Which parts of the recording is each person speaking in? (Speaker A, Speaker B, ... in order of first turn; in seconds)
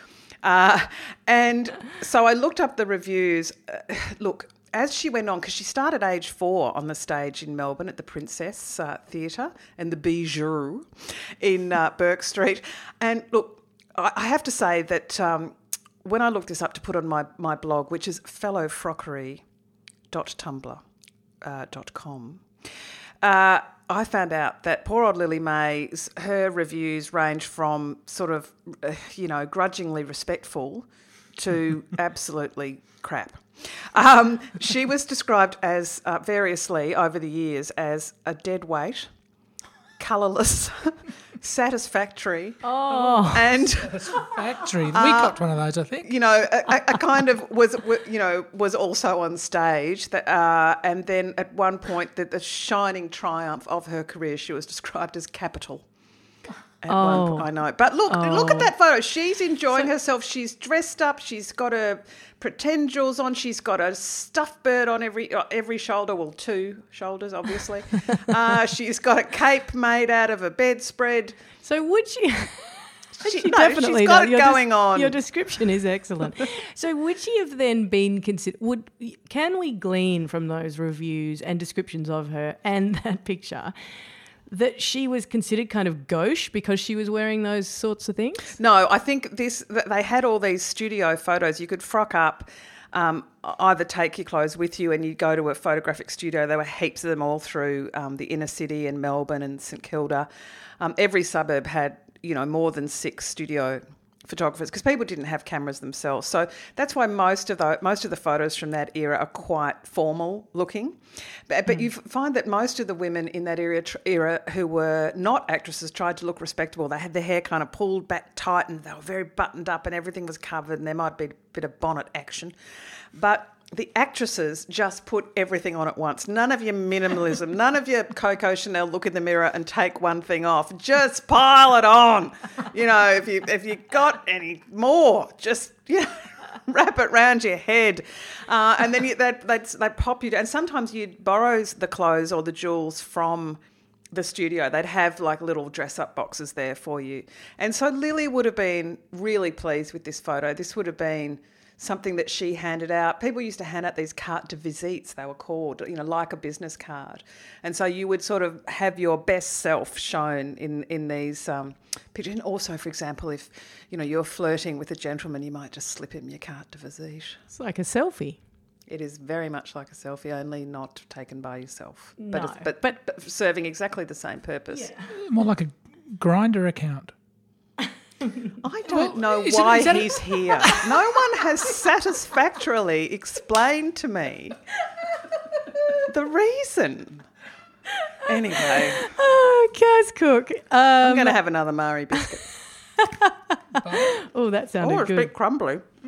Speaker A: 0.4-10.9, 11.4-19.4, 20.1-20.8, 21.4-22.4, 23.2-39.1, 40.0-44.2, 44.9-45.4, 46.0-55.8, 56.8-71.4, 73.2-75.2, 88.6-100.3, 100.8-111.0, 111.5-122.5, 123.1-136.1, 136.6-143.6, 144.1-167.4, 168.9-174.9, 178.6-184.6, 185.9-187.2, 188.2-189.1, 191.0-192.5, 194.8-195.8
Speaker B: 42.6-43.6, 56.9-57.5, 58.1-58.7, 71.6-83.7, 84.5-88.5, 167.5-168.4, 172.2-172.9, 188.0-191.4, 193.0-195.3
Speaker C: 43.7-46.1, 175.1-177.1, 178.9-180.8, 193.8-194.1